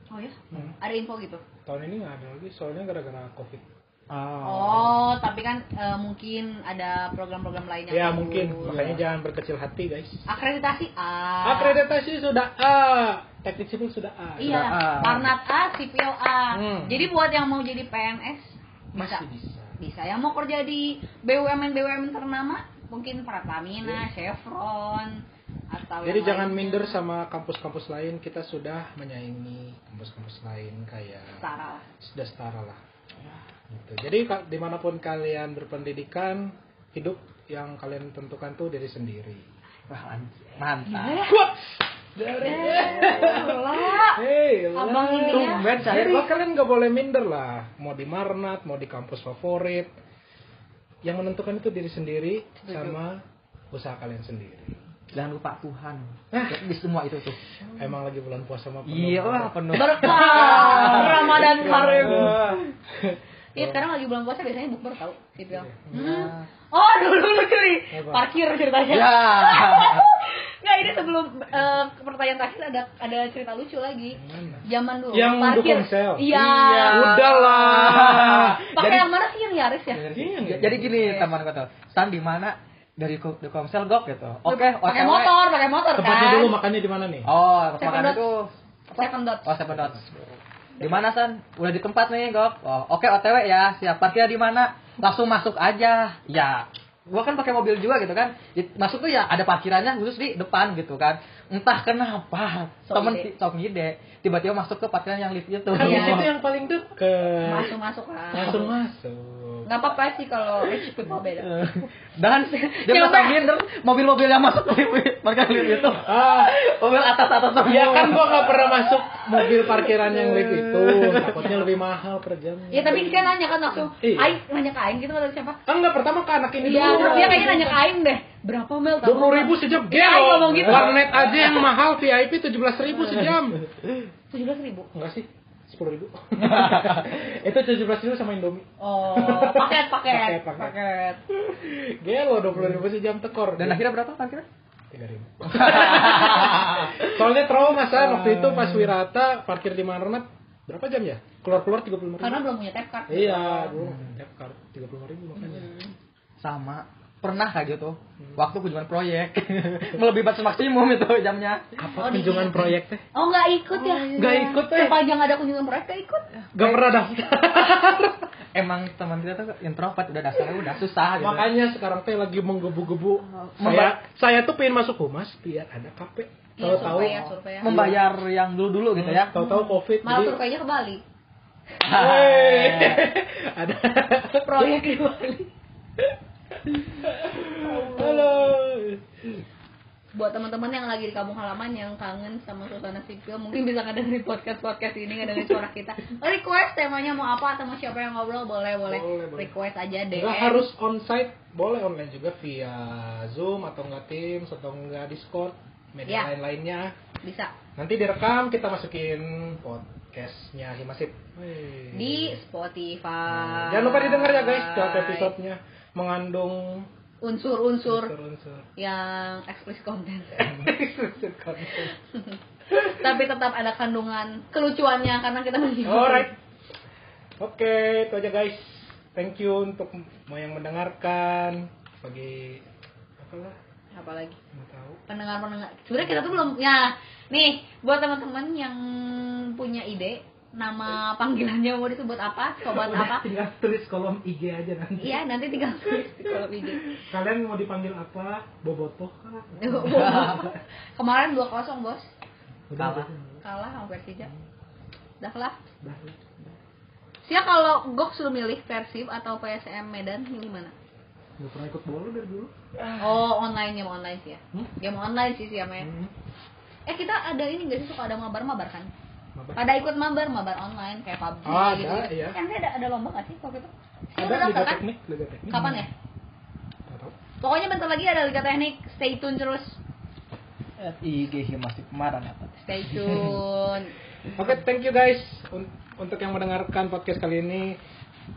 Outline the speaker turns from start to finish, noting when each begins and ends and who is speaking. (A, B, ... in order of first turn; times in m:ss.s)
0:00.1-0:01.4 A
0:01.6-0:03.6 B
0:04.1-0:05.1 C
0:04.4-0:08.8 A
0:07.9-0:10.3 B
0:08.6-0:09.0 C
0:10.3-0:11.8 A
0:11.4-0:14.8 B
0:14.4-0:19.2 A
0:14.4-0:15.3 C
0:16.5-0:17.1 B
0:18.9-0:19.8 B
0:19.8-0:27.0 A
0:26.0-0:31.4 B
0:31.3-0:31.9 A
0:32.0-0:32.8 B
0:33.7-0:39.5 B
0:39.9-0:41.3 C
0:40.8-0:41.4 A
0:41.2-0:49.9 B
0:42.3-0:45.8 A
0:45.2-0:46.3 C
0:51.0-0:54.8 B
0:52.6-0:53.0 A
0:55.1-0:57.4 C
0:56.3-0:56.6 B
0:57.8-1:03.8 B
0:58.8-1:02.6 C
0:59.7-1:02.5 A
1:03.5-1:17.5 A
1:05.5-1:06.3 B
1:05.9-1:06.4 C
1:07.9-1:08.3 B
1:08.9-1:10.1 C
1:14.1-1:18.7 B
1:16.4-1:19.0 C
1:18.7-1:20.0 A
1:19.9-1:25.3 C
1:20.1-1:21.2 B
1:21.0-1:21.3 A
1:24.4-1:26.6 A
1:26.0-1:27.3 B
1:27.2-1:46.3 C
1:27.8-1:28.2 A
1:28.9-1:29.5 A
1:29.7-1:30.1 B
1:42.9-1:43.3 A
1:45.7-1:47.7 B
1:45.8-1:46.3 A
1:47.4-1:48.7 A
1:48.3-1:49.7 B
1:49.6-1:51.8 A
1:51.4-2:01.6 C
1:52.5-1:53.4 A
1:56.0-1:56.6 B
1:57.6-2:03.3 B
2:02.7-2:05.6 A
2:04.0-2:04.4 B
2:05.7-2:07.8 B
2:06.6-2:11.6 A
2:09.0-2:13.7 B
2:12.9-2:13.3 A
2:14.3-2:14.9 A
2:14.9-2:20.7 B
2:16.4-2:17.1 C
2:18.8-2:21.2 A
2:21.3-2:23.8 B
2:23.6-2:24.4 C
2:24.9-2:32.4 B
2:25.5-2:27.2 C
2:28.2-2:28.9 C
2:32.2-2:33.7 A
2:33.1-2:35.7 B
2:33.8-2:34.1 C
2:35.4-2:35.9 A
2:36.4-2:41.7 C
2:41.8-2:43.0 B
2:42.0-2:46.2 A
2:43.7-2:45.0 B
2:46.4-2:47.0 C
2:46.5-2:48.3 B
2:48.5-2:51.5 C
2:51.1-2:58.0 B
2:53.3-2:54.0 C
2:56.6-2:57.9 A
2:56.6-2:59.4 C
2:58.9-3:00.4 B
2:59.3-3:01.0 A
3:01.8-3:03.1 C
3:01.8-3:04.8 B
3:04.4-3:05.5 A
3:06.6-3:09.4 B
3:07.5-3:08.6 A
3:10.1-3:20.7 A
3:18.8-3:19.5 B
3:20.1-3:26.9 B
3:27.2-3:27.5 A
3:27.8-3:32.4 B
3:31.9-3:35.3 A
3:33.3-3:36.9 B
3:37.2-3:38.1 A
3:37.8-3:38.7 B
3:38.8-3:40.6 A
3:40.4-3:41.9 B
3:42.1-3:46.3 A
3:45.8-3:46.4 B
3:47.4-3:52.6 B
3:53.2-3:53.6 B
3:53.9-3:54.4 A
3:54.5-3:55.0 B
3:55.1-4:03.3 A
3:56.0-3:56.4 B
4:02.6-4:05.2 B
4:05.0-4:06.9 A
4:05.8-4:10.6 B
4:09.6-4:12.1 A
4:09.9-4:10.5 C
4:12.7-4:13.4 B
4:12.8-4:13.1 C
4:13.4-4:14.3 A
4:15.2-4:15.6 A
4:15.8-4:16.5 B
4:17.2-4:20.7 A
4:21.4-4:22.5 B
4:23.0-4:25.9 A
4:25.8-4:26.1 B
4:26.8-4:28.9 A
4:29.3-4:29.6 B
4:29.5-4:34.8 A
4:31.4-4:32.4 B
4:34.2-4:35.9 B
4:35.5-4:35.9 A
4:36.9-4:37.1 B
4:37.4-4:39.8 A
4:40.8-4:43.4 C
4:42.6-4:43.9 A
4:44.3-4:47.8 B